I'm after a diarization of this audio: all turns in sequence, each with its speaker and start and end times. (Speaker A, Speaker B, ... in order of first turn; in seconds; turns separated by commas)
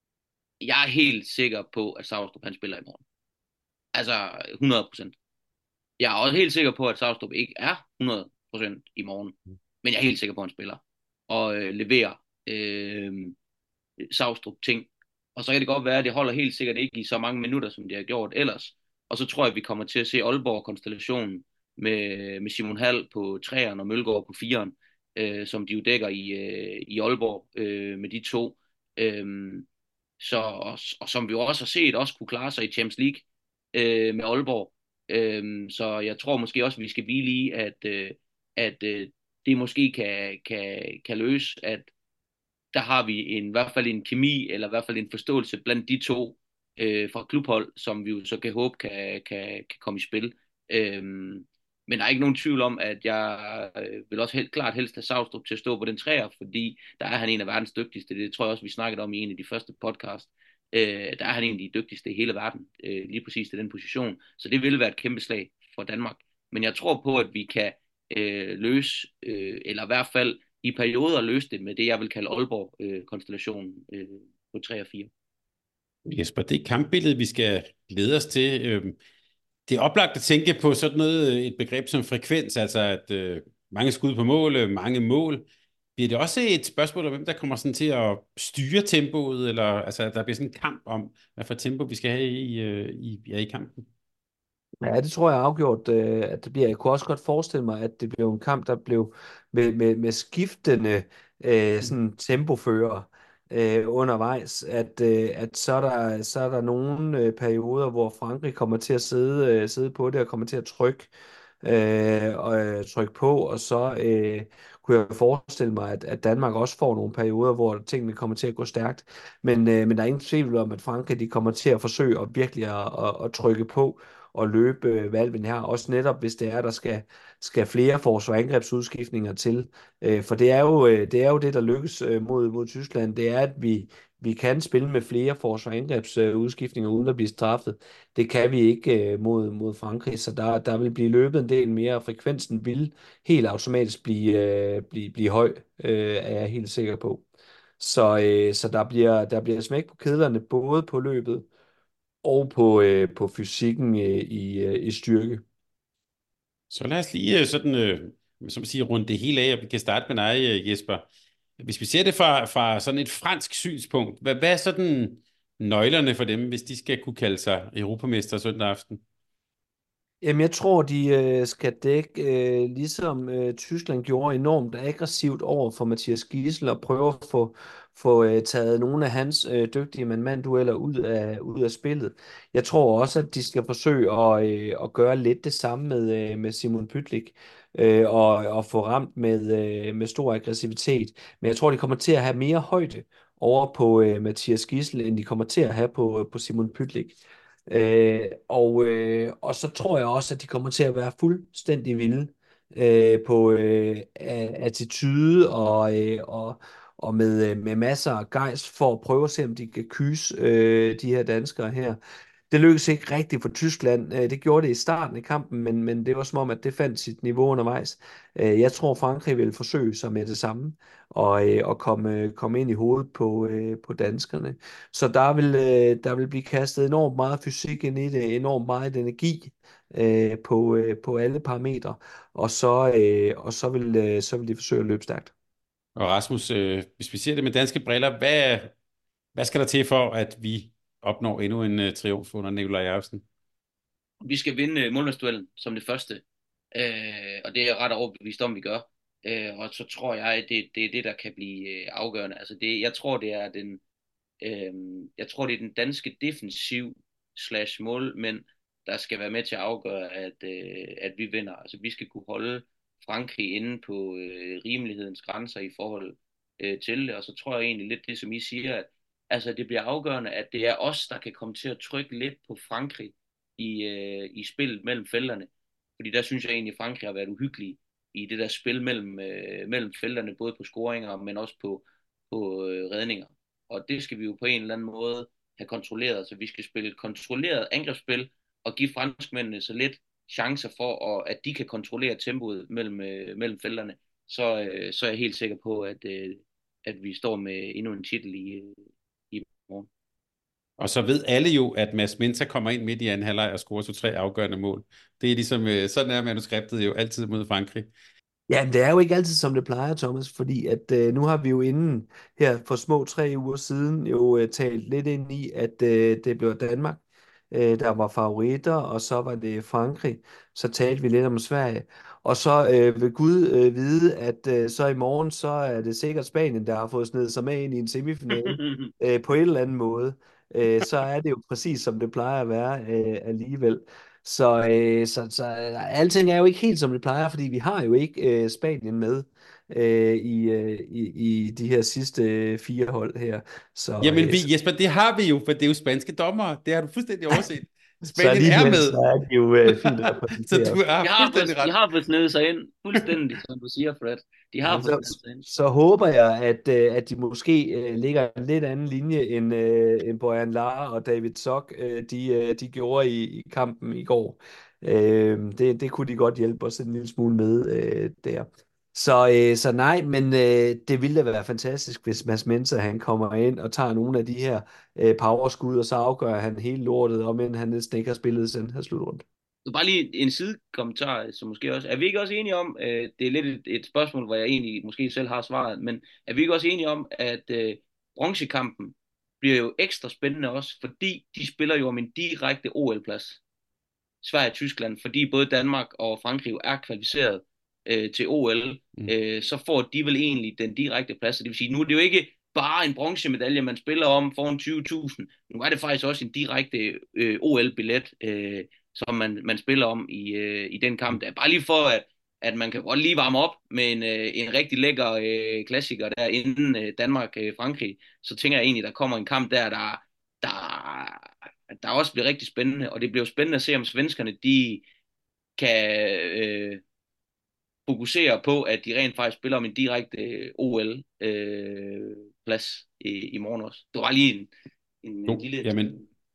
Speaker A: 0.6-3.0, Speaker A: 3.9-5.2, Speaker A: 6.0-13.3, Speaker A: 14.0-29.6, Speaker A: 30.2-41.9, Speaker A: 42.7-75.1, Speaker B: 76.0-79.0, Speaker B: 79.7-93.8, Speaker C: 94.8-111.1, Speaker C: 111.6-147.2, Speaker C: 147.8-151.4, Speaker C: 152.2-155.4, Speaker B: 156.7-161.0, Speaker B: 161.6-169.0, Speaker C: 170.2-212.0, Speaker C: 212.5-235.3, Speaker B: 235.9-238.7, Speaker B: 239.3-243.2, Speaker A: 244.2-246.2, Speaker A: 246.7-253.8, Speaker A: 254.4-299.9, Speaker B: 300.8-307.9, Speaker C: 308.5-344.5, Speaker A: 328.3-328.9, Speaker B: 344.0-349.0, Speaker C: 348.1-350.8, Speaker B: 349.6-351.7, Speaker A: 351.0-355.4, Speaker C: 354.6-379.2, Speaker A: 379.6-393.4, Speaker A: 394.2-424.8, Speaker A: 425.6-426.8, Speaker A: 427.9-434.5, Speaker A: 435.0-436.0, Speaker B: 435.3-436.0